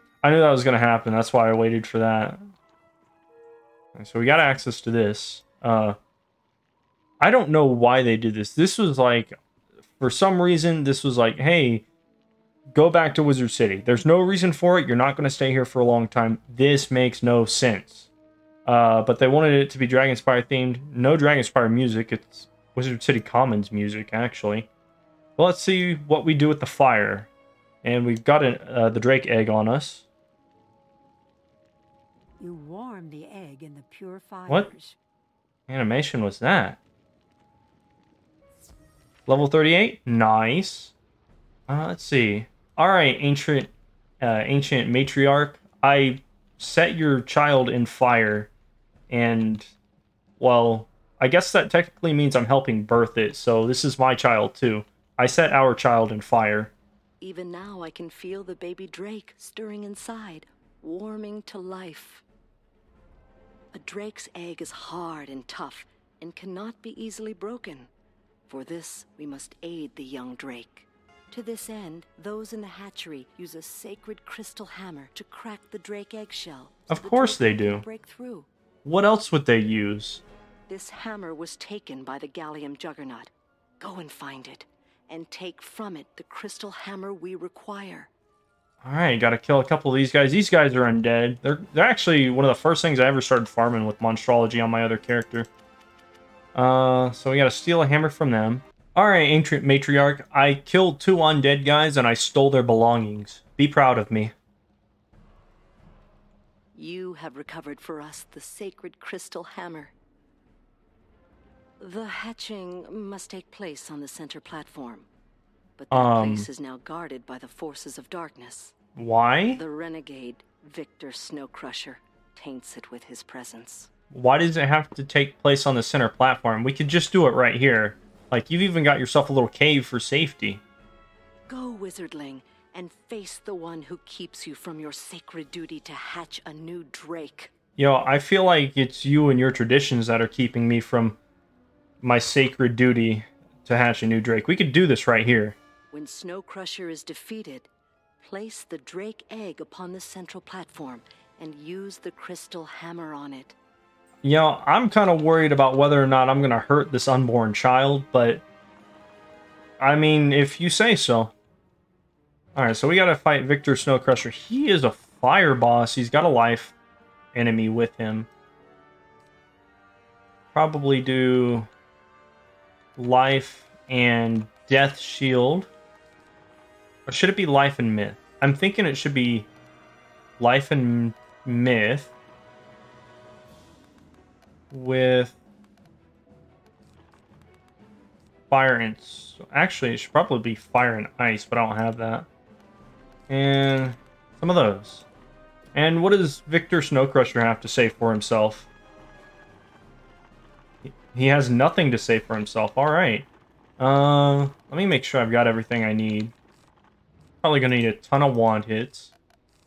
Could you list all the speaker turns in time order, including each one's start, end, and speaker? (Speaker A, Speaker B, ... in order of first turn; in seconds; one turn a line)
Speaker A: 0.2-2.4
Speaker A: 3.9-6.0
Speaker A: 7.2-9.3
Speaker A: 10.0-11.8
Speaker A: 12.7-18.1
Speaker A: 18.6-24.7
Speaker A: 25.4-27.3
Speaker A: 27.8-30.1
Speaker B: 32.4-35.0
Speaker A: 35.7-36.8
Speaker A: 39.3-40.9
Speaker A: 41.7-48.5
Speaker A: 49.1-49.7
Speaker A: 50.4-56.7
Speaker C: 57.2-62.2
Speaker C: 63.7-67.9
Speaker C: 68.5-78.5
Speaker A: 76.9-77.8
Speaker A: 78.8-80.2
Speaker C: 80.7-88.1
Speaker A: 88.8-95.5
Speaker A: 96.5-104.3
Speaker C: 106.7-109.9
Speaker C: 111.8-115.1
Speaker C: 115.8-118.8
Speaker A: 115.9-116.5
Speaker A: 119.0-119.6
Speaker C: 119.5-123.9
Speaker A: 124.1-130.6
Speaker C: 131.5-137.5
Speaker A: 137.8-141.2
Speaker A: 142.0-145.6
Speaker C: 145.9-153.6
Speaker A: 154.2-158.4
Speaker A: 159.8-161.3
Speaker A: 162.5-166.7
Speaker A: 167.3-168.3
Speaker A: 170.5-171.7
Speaker A: 173.0-175.7
Speaker A: 177.1-179.5
Speaker A: 180.4-182.1
Speaker A: 184.7-185.3
Speaker A: 188.5-192.3
Speaker A: 193.3-195.0
Speaker A: 195.7-198.7
Speaker A: 200.8-203.3
Speaker A: 203.8-206.3
Speaker A: 207.4-209.1